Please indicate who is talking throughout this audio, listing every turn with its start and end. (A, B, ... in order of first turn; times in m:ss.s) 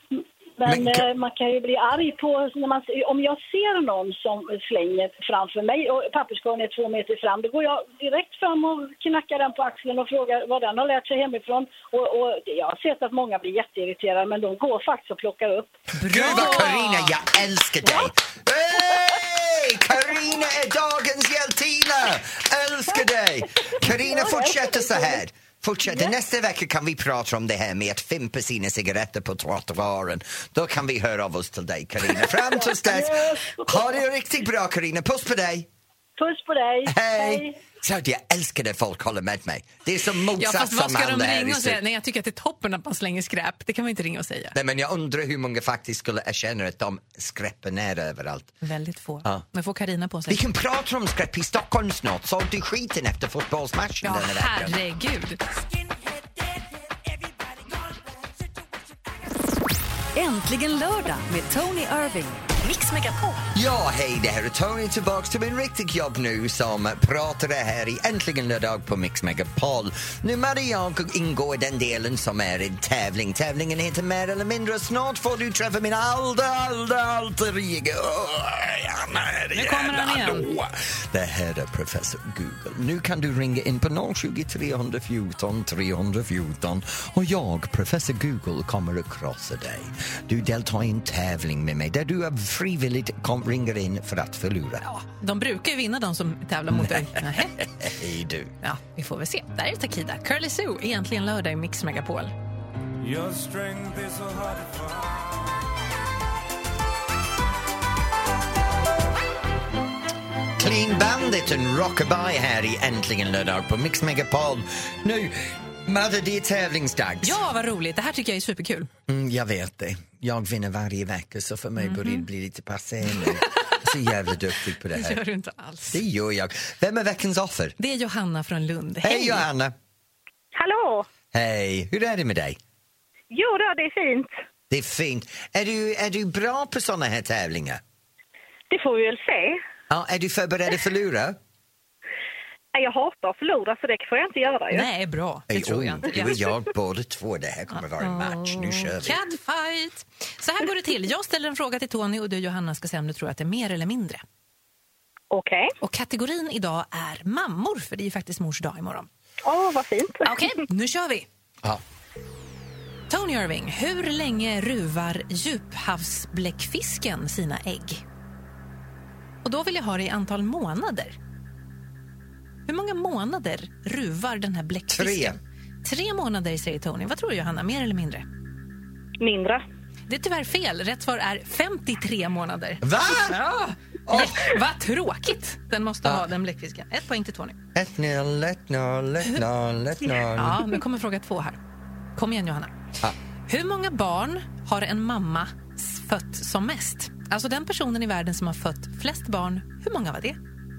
0:00.1-0:15.8 A
0:00.6-0:01.1 B
0:15.9-0:17.1 C
0:16.1-0:35.7 B
0:23.9-0:25.2 A
0:32.6-0:33.9 A
0:36.2-0:37.6 A
0:36.9-0:41.8 B
0:40.4-0:44.6 C
0:44.5-0:48.5 B
0:48.6-0:50.4 C
0:50.3-0:54.8 B
0:54.0-0:55.4 C
0:55.8-0:56.5 D
0:57.2-0:58.0 D
1:00.2-1:02.5 E
1:02.8-1:03.2 C
1:03.5-1:34.8 B
1:19.5-1:20.5 C
1:34.8-1:37.6 C
1:36.7-1:38.5 B
1:38.6-1:42.3 C
1:43.0-1:45.3 D
1:50.6-1:57.4 B
1:57.2-1:58.9 C
1:59.1-2:05.2 B
2:01.8-2:02.2 C
2:04.9-2:06.0 C
2:05.9-2:07.8 B
2:07.8-2:09.4 C
2:09.0-2:09.8 B
2:10.5-2:11.1 F
2:11.3-2:12.6 B
2:13.3-2:14.3 F
2:14.7-2:17.8 B
2:18.7-2:19.6 F
2:19.9-2:21.4 B
2:22.7-2:24.9 F
2:24.7-2:26.4 C
2:25.5-2:29.2 B
2:28.0-2:34.2 C
2:35.3-2:35.7 F
2:35.8-2:39.1 C
2:39.4-2:40.4 F
2:40.2-2:41.3 C
2:43.1-2:48.0 C
2:49.4-2:51.2 C
2:52.7-2:58.3 C
2:54.9-2:55.4 B
2:59.2-2:59.6 F
3:00.1-3:07.6 C
3:02.8-3:03.4 B
3:04.1-3:04.5 B
3:07.8-3:10.7 B
3:10.2-3:11.6 C
3:12.2-3:12.7 C
3:13.5-3:20.4 C